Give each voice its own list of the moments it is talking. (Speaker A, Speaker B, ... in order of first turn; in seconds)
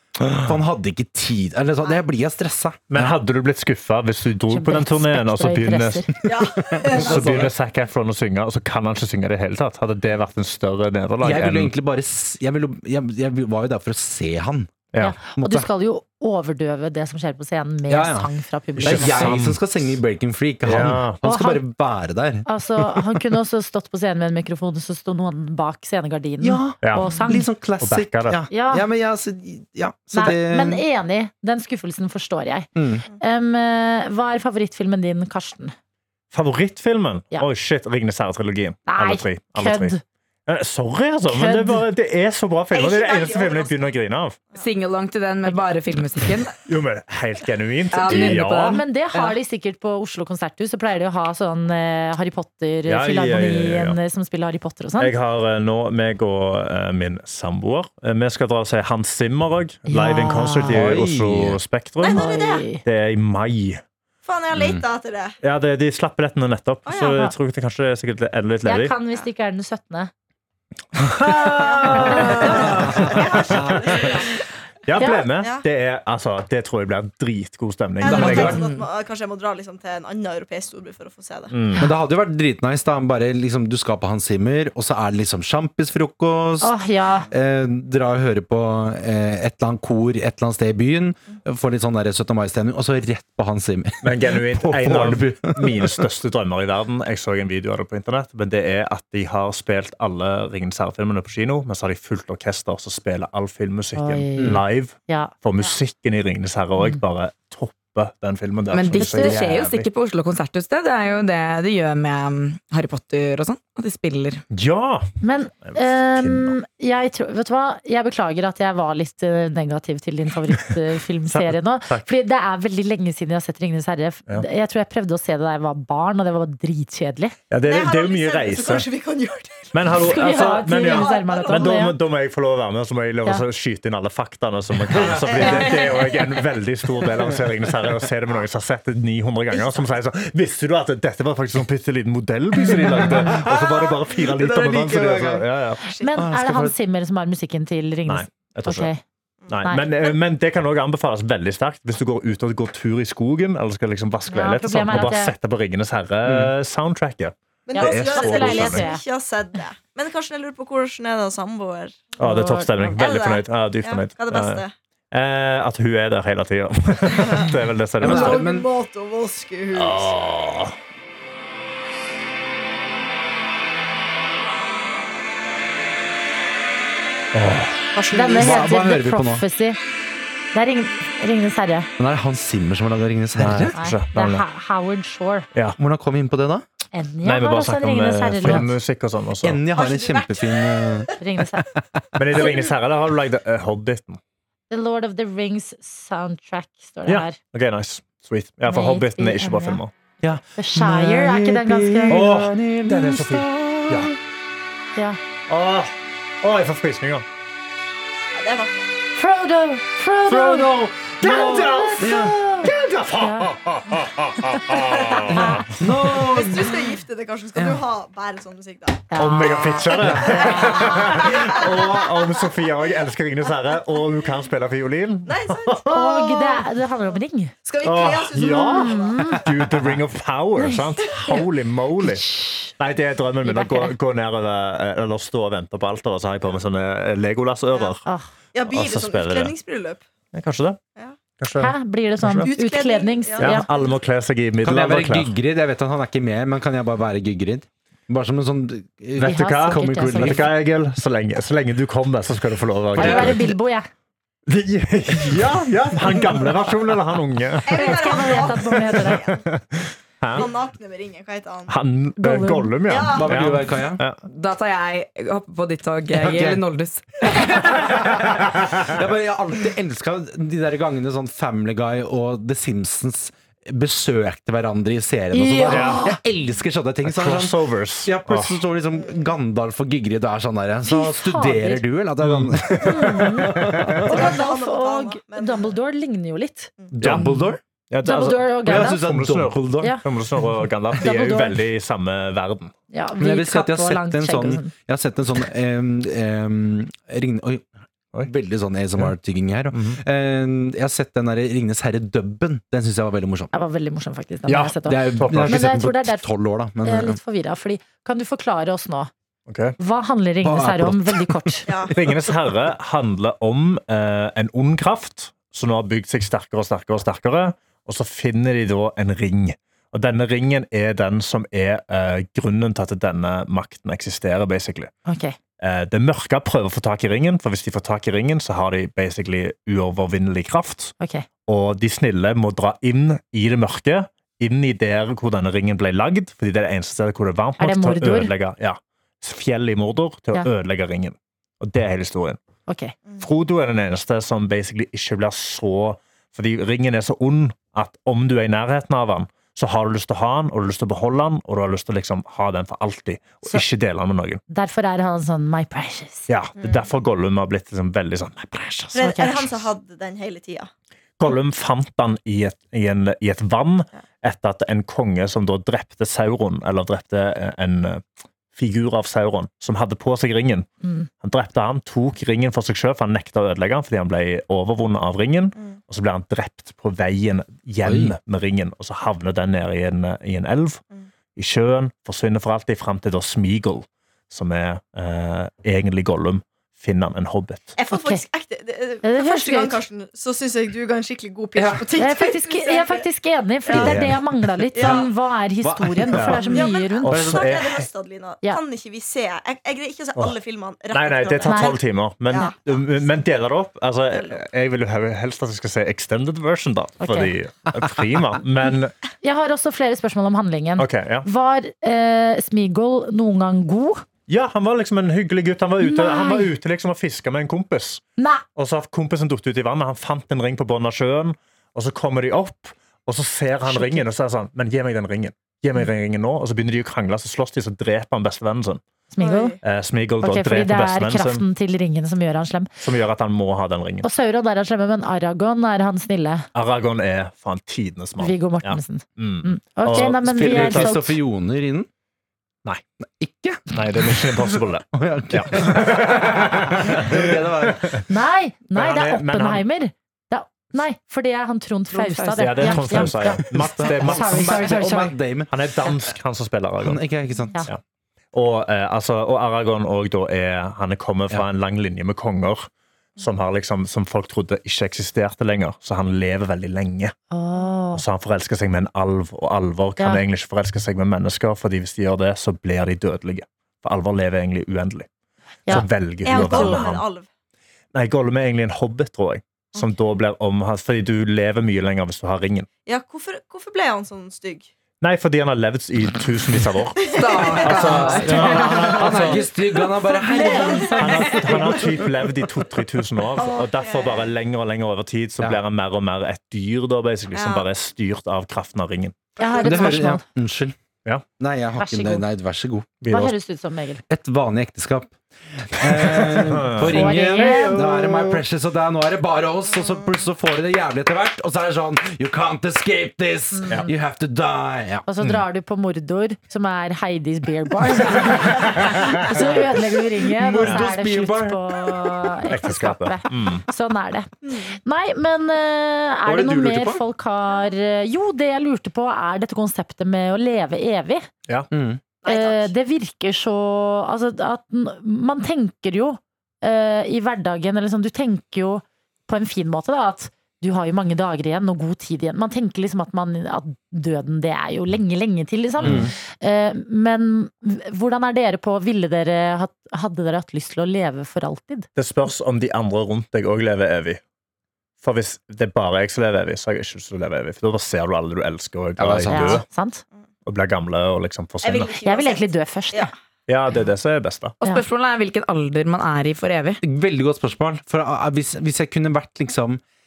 Speaker A: 0.2-0.5, 2.9-6.2, 6.9-11.7, 14.9-15.2, 18.8-19.6, 20.6-21.2, 26.8-28.4, 36.3-44.4, 46.6-48.8, 52.9-54.0, 55.0-63.8, 65.4-69.0, 71.0-74.2, 74.9-78.6, 81.5-81.9, 94.0-109.9, 114.5-116.6, 121.3-122.1, 127.5-128.9, 129.7-145.8, 148.1-148.9, 149.5-158.9, 162.2-168.4, 169.7-170.8, 177.3-177.9, 183.4-184.4, 187.2-189.6, 192.2-194.2, 197.1-199.9, 202.1-204.1, 205.5-207.2, 211.2-215.8, 219.2-226.3, 227.8-238.1, 238.6-239.6, 240.3-240.8, 241.4-242.5, 243.4-245.4, 249.2-253.5, 254.5-260.5, 261.7-264.2, 268.6-268.9, 275.7-276.1, 277.1-278.6, 282.2-284.2, 287.0-287.4, 287.9-292.7, 299.7-300.0, 304.5-305.6, 309.5-309.8, 311.9-324.9, 325.6-330.9, 331.5-342.4, 343.2-354.4, 356.3-359.5, 361.2-370.7, 371.2-380.8, 381.4-387.8, 393.7-394.2, 396.1-397.9, 400.9-408.9, 410.8-411.3, 414.3-418.1, 418.6-428.8, 429.6-431.4, 432.8-434.1, 436.6-440.9, 443.7-448.1, 448.8-449.6, 452.4-454.8, 455.5-457.0, 458.3-467.1, 467.9-475.1, 475.7-477.1, 477.9-482.7, 485.0-487.0, 487.6-489.5, 490.8-499.2, 503.0-503.3, 506.0-508.2, 519.0-519.3, 520.6-520.9, 522.5-523.6, 545.8-546.1, 552.0-554.2, 555.0-559.6, 560.5-562.0, 563.5-564.5
Speaker B: 0.3-3.1, 6.5-7.5, 11.2-15.7, 17.9-22.5, 26.4-30.9, 32.8-33.1, 60.7-61.6, 64.5-64.8, 72.5-74.0, 78.0-78.6, 81.8-96.1, 104.4-104.6, 134.9-135.4, 142.6-145.4, 146.1-146.8, 156.2-156.5, 168.0-168.7, 178.3-179.5, 182.0-183.8, 185.8-186.7, 189.4-191.2, 200.2-204.2, 210.3-212.4, 215.3-216.7, 217.5-217.8, 244.6-250.5, 252.9-253.4, 263.1-264.0, 266.1-266.6, 267.3-284.2, 286.9-287.6, 288.6-290.0, 293.2-297.6, 298.2-303.5, 304.9-307.2, 310.4-312.4, 377.8-378.1, 391.6-391.9, 395.6-396.5, 397.1-397.6, 439.9-441.9, 443.0-448.0, 452.6-456.2, 456.8-457.7, 487.6-492.3, 499.6-500.8, 501.4-502.9, 504.1-515.1, 518.1-518.4, 519.3-522.4, 526.2-527.0, 531.7-532.0, 545.8-546.1, 559.0-559.6, 566.8-569.8
Speaker C: 4.5-6.1, 15.0-19.4, 21.2-21.6, 22.5-27.5, 28.5-28.9, 30.1-32.7, 33.2-35.8, 38.9-40.0, 41.3-41.9, 48.0-55.1, 59.9-61.0, 62.1-62.8, 68.7-70.1, 71.3-72.8, 75.0-75.3, 86.6-87.3, 104.0-105.3, 109.0-109.4, 115.2-127.4, 130.0-132.0, 142.7-143.2, 146.0-149.0, 154.3-155.3, 157.8-159.0, 162.2-162.7, 178.1-179.8, 180.5-181.9, 183.8-185.5, 186.9-188.7, 191.2-191.7, 194.7-197.4, 198.7-199.8, 200.6-202.2, 209.2-213.5, 215.2-215.7, 219.1-221.2, 225.9-227.5, 228.5-229.4, 230.6-231.4, 232.0-232.7, 233.4-234.0, 241.6-243.7, 249.2-250.5, 253.0-253.9, 257.7-259.2, 262.2-262.7, 275.3-276.2, 280.9-281.9, 282.9-286.7, 288.0-289.1, 289.8-290.1, 290.9-291.6, 292.9-294.7, 303.5-306.3, 306.8-309.1, 309.8-311.7, 325.1-325.4, 331.0-331.2, 337.6-338.3, 342.7-342.9, 354.5-356.3, 359.1-359.4, 370.8-371.1, 387.9-388.2, 389.0-389.8, 392.0-397.1, 401.4-401.8, 407.0-407.4, 409.2-414.1, 415.8-416.5, 418.2-418.4, 423.6-424.1, 429.1-429.6, 430.2-432.7, 434.0-436.5, 438.2-441.2, 448.1-455.1, 467.3-468.0, 475.7-476.9, 490.4-490.8, 499.4-500.2, 501.8-502.2, 503.1-504.0, 506.8-508.1, 513.5-513.9, 515.1-531.3, 532.2-551.9, 559.3-560.0, 562.0-563.1
Speaker D: 6.2-7.5, 42.7-44.0, 62.0-62.7, 64.2-65.4, 66.9-67.2, 71.5-75.7, 78.0-81.5, 127.6-131.8, 135.2-136.2, 139.5-139.9, 144.2-145.3, 145.8-146.2, 149.4-150.2, 157.7-162.2, 162.8-164.7, 167.1-170.2, 177.9-178.6, 189.7-191.1, 192.4-192.7, 208.3-208.8, 214.8-215.3, 216.1-222.2, 223.6-224.0, 225.3-227.1, 227.7-229.7, 231.1-231.4, 238.5-240.1, 242.3-244.0, 257.7-259.4, 260.3-261.7, 262.9-263.3, 278.9-279.3, 284.0-285.8, 311.7-311.9, 356.6-356.9, 358.9-360.7, 387.8-393.0, 393.7-393.9, 394.8-395.1, 396.4-403.3, 404.1-404.4, 429.2-429.6, 476.2-477.3, 482.9-484.7, 487.0-492.2, 493.3-494.3, 497.3-497.7, 499.4-499.9, 509.8-510.1, 524.5-524.7, 532.2-532.7, 561.6-563.1
Speaker E: 44.6-46.6, 47.9-49.4, 78.5-78.8, 108.7-114.4, 264.3-267.7, 451.9-452.6, 487.1-489.1, 564.6-566.8